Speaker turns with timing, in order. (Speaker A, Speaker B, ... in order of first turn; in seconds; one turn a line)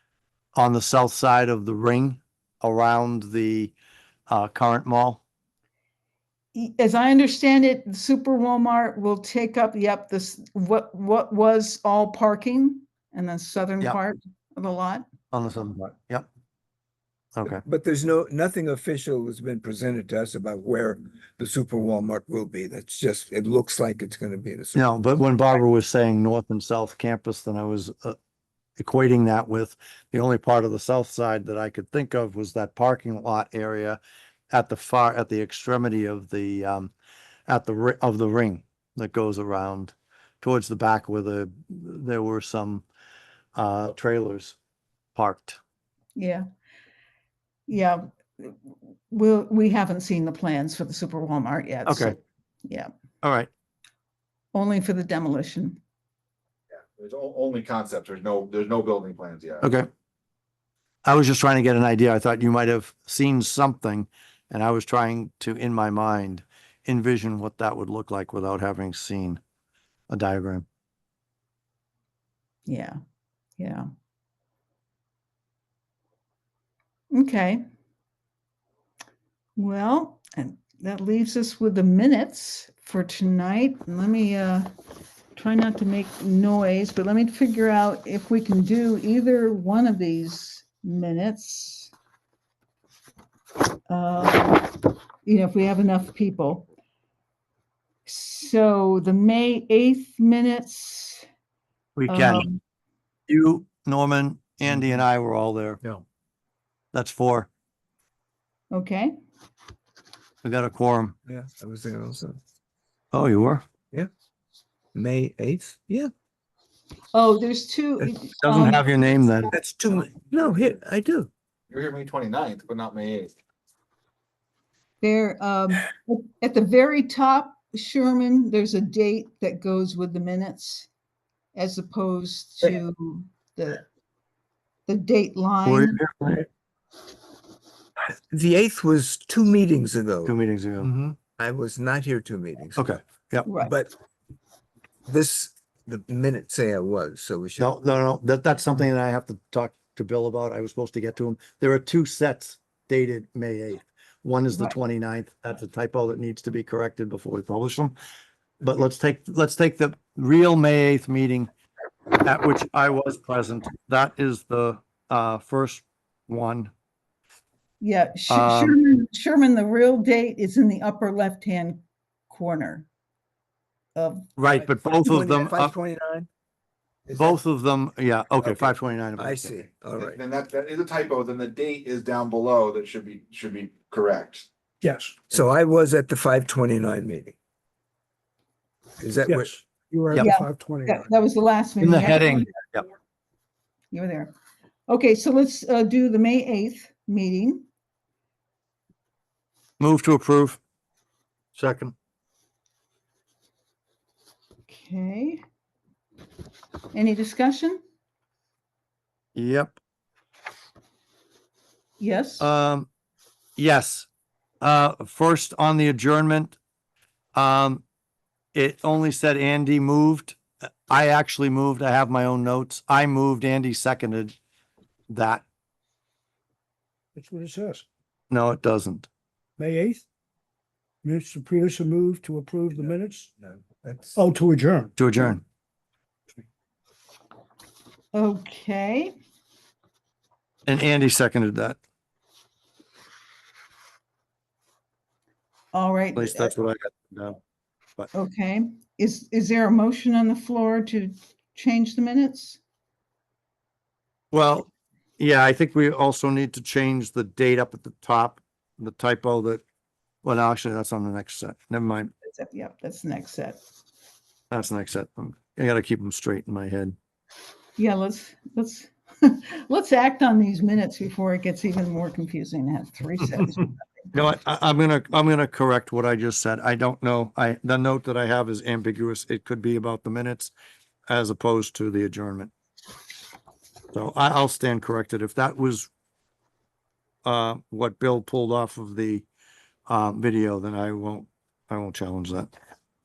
Speaker A: 0.6-3.7
Speaker A: 4.3-5.2
Speaker B: 6.5-15.1
Speaker A: 15.3-16.3
Speaker A: 17.4-17.6
Speaker C: 17.6-24.9
Speaker A: 24.8-28.2
Speaker A: 28.8-34.0
Speaker A: 34.5-36.9
Speaker A: 37.5-42.9
Speaker A: 43.5-44.6
Speaker A: 45.2-45.6
Speaker B: 46.2-46.5
Speaker B: 47.7-52.9
Speaker A: 51.9-52.2
Speaker A: 53.2-53.5
Speaker B: 54.5-55.8
Speaker D: 57.0-59.7
Speaker A: 59.6-59.9
Speaker A: 61.0-69.4
Speaker A: 70.1-70.7
Speaker B: 72.7-73.0
Speaker B: 73.6-73.9
Speaker B: 77.1-77.6
Speaker B: 79.6-84.7
Speaker B: 85.3-91.9
Speaker B: 93.9-96.7
Speaker B: 98.1-101.2
Speaker A: 102.0-102.5
Speaker B: 102.1-102.6
Speaker A: 103.3-105.8
Speaker A: 106.9-107.5
Speaker B: 108.7-109.1
Speaker A: 110.4-111.2
Speaker C: 111.3-112.4
Speaker A: 113.1-113.6
Speaker C: 114.9-116.1
Speaker B: 117.1-119.4
Speaker A: 118.4-119.5
Speaker C: 119.5-121.3
Speaker D: 121.7-123.3
Speaker B: 125.0-130.9
Speaker B: 131.6-133.8
Speaker B: 134.9-136.0
Speaker A: 135.7-136.5
Speaker C: 138.3-140.3
Speaker A: 140.2-140.9
Speaker C: 141.3-142.9
Speaker A: 142.8-143.5
Speaker B: 143.5-143.7
Speaker C: 143.6-143.9
Speaker C: 145.1-147.7
Speaker A: 147.6-158.0
Speaker A: 158.6-161.5
Speaker A: 162.2-166.7
Speaker B: 167.8-172.9
Speaker A: 168.3-168.8
Speaker B: 174.0-174.3
Speaker A: 174.4-175.7
Speaker C: 174.5-176.3
Speaker C: 177.1-177.4
Speaker A: 177.2-179.6
Speaker C: 178.4-180.2
Speaker D: 180.0-184.5
Speaker E: 184.8-185.2
Speaker C: 185.3-187.3
Speaker C: 189.0-189.6
Speaker E: 189.3-191.1
Speaker B: 190.2-192.5
Speaker A: 191.8-192.8
Speaker B: 193.9-194.3
Speaker B: 194.9-197.7
Speaker A: 199.8-200.6
Speaker A: 201.6-201.9
Speaker B: 204.7-205.4
Speaker B: 206.9-207.8
Speaker A: 209.3-209.8
Speaker B: 212.0-212.5
Speaker A: 212.4-212.9
Speaker A: 213.6-214.1
Speaker A: 214.6-216.6
Speaker A: 217.4-217.8
Speaker A: 218.6-224.3
Speaker A: 225.1-225.4
Speaker E: 227.2-227.8
Speaker A: 228.3-229.1
Speaker E: 229.6-230.1
Speaker E: 231.0-233.3
Speaker C: 232.8-234.2
Speaker E: 234.2-235.0
Speaker A: 235.0-235.4
Speaker B: 238.1-239.1
Speaker A: 240.7-241.8
Speaker B: 245.7-246.5
Speaker A: 246.2-247.4
Speaker B: 248.1-252.6
Speaker A: 254.3-259.6
Speaker A: 260.2-262.1
Speaker B: 262.2-263.6
Speaker A: 264.5-267.0
Speaker B: 267.8-274.1
Speaker A: 274.1-280.5
Speaker A: 281.1-282.5
Speaker A: 283.9-285.9
Speaker A: 287.2-289.3
Speaker A: 289.9-292.5